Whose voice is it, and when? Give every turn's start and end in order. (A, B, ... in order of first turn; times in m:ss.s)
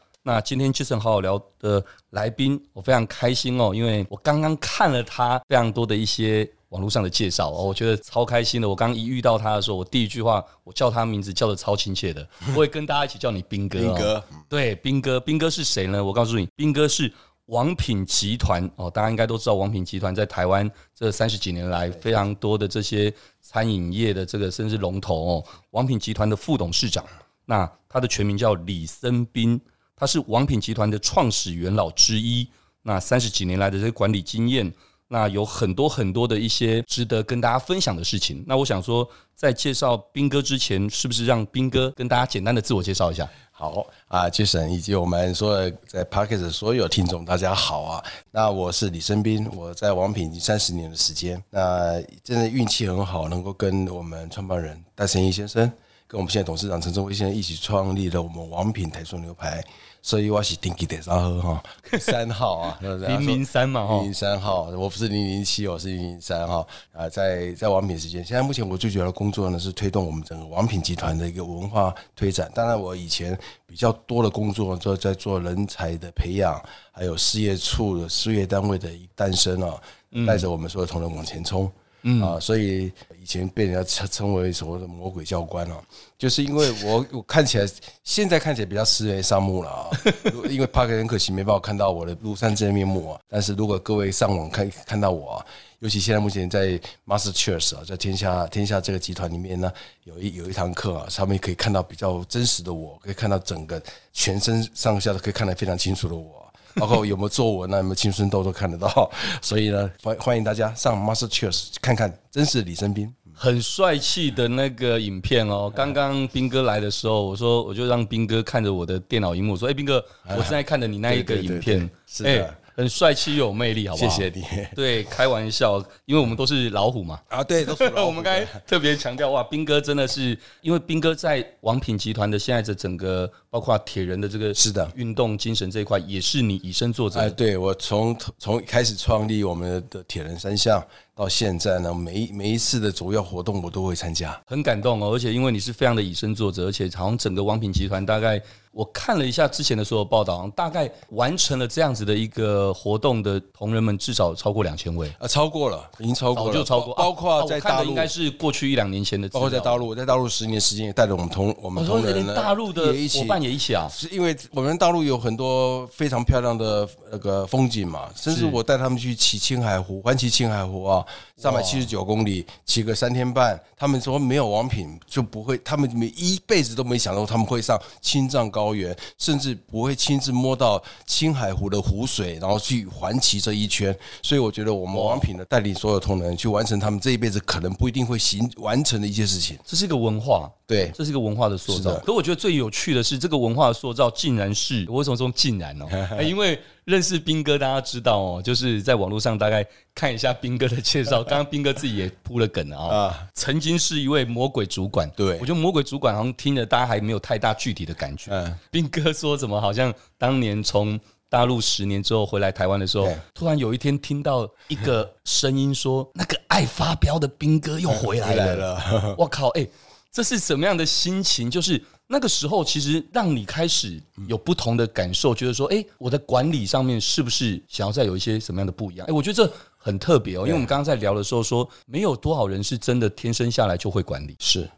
0:00.2-0:43.3 A
0:13.8-0:14.4 B
0:43.5-1:53.3 B
1:03.0-1:04.1 A
1:20.1-1:20.4 A
1:22.0-1:22.4 A
1:30.0-1:30.3 A
1:53.4-2:17.4 A
2:00.2-2:02.6 B
2:03.9-2:04.8 B
2:07.3-2:08.6 B
2:14.6-2:14.9 B
2:17.1-2:24.4 B
2:24.5-2:35.2 A
2:35.2-2:38.1 B
2:36.3-2:39.8 A
2:39.3-3:09.6 B
2:41.7-2:44.0 A
2:48.3-2:48.6 A
2:51.4-2:51.9 A
3:04.9-3:05.2 A
3:09.7-3:54.4 A
3:10.7-3:11.0 B
3:11.7-3:12.0 B
3:15.9-3:16.3 B
3:22.9-3:23.3 B
3:25.2-3:25.5 B
3:28.3-3:28.6 B
3:37.9-3:39.2 B
3:50.4-3:50.7 B
3:54.4-3:54.7 B